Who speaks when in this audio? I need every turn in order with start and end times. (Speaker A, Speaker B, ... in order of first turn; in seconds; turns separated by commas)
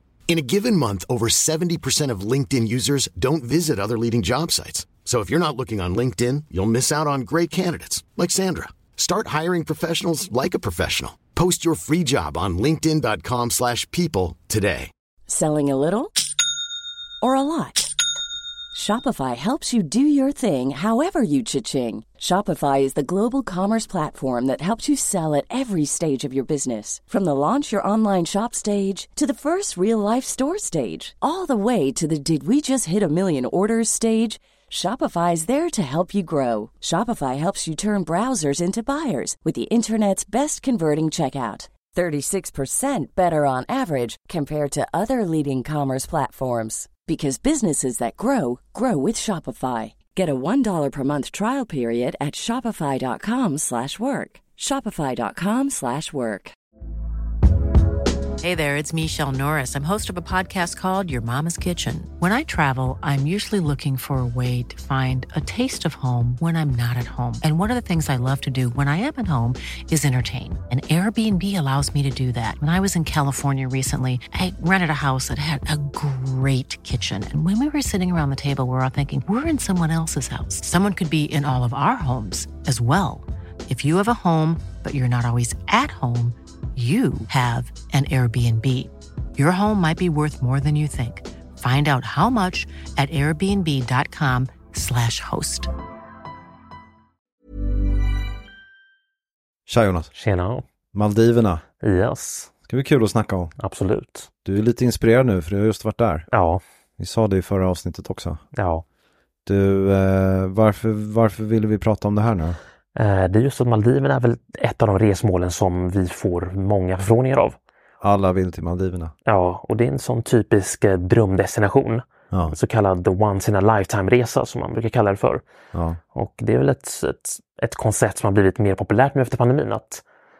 Speaker A: 0.3-14.9, Speaker B: 15.3-16.1, Speaker B: 17.2-17.9, Speaker B: 18.7-56.5, Speaker C: 58.4-95.7, Speaker D: 99.7-100.1, Speaker E: 100.2-100.6, Speaker D: 100.9-101.6, Speaker E: 101.8-102.5, Speaker D: 102.7-103.5, Speaker E: 103.6-104.3, Speaker D: 104.5-106.3, Speaker E: 106.3-106.6, Speaker D: 107.0-108.4, Speaker E: 108.5-108.8, Speaker D: 109.5-112.6, Speaker E: 113.0-117.6, Speaker D: 118.0-119.1, Speaker E: 119.3-125.4, Speaker D: 122.3-122.6, Speaker D: 125.7-126.0, Speaker E: 126.1-130.0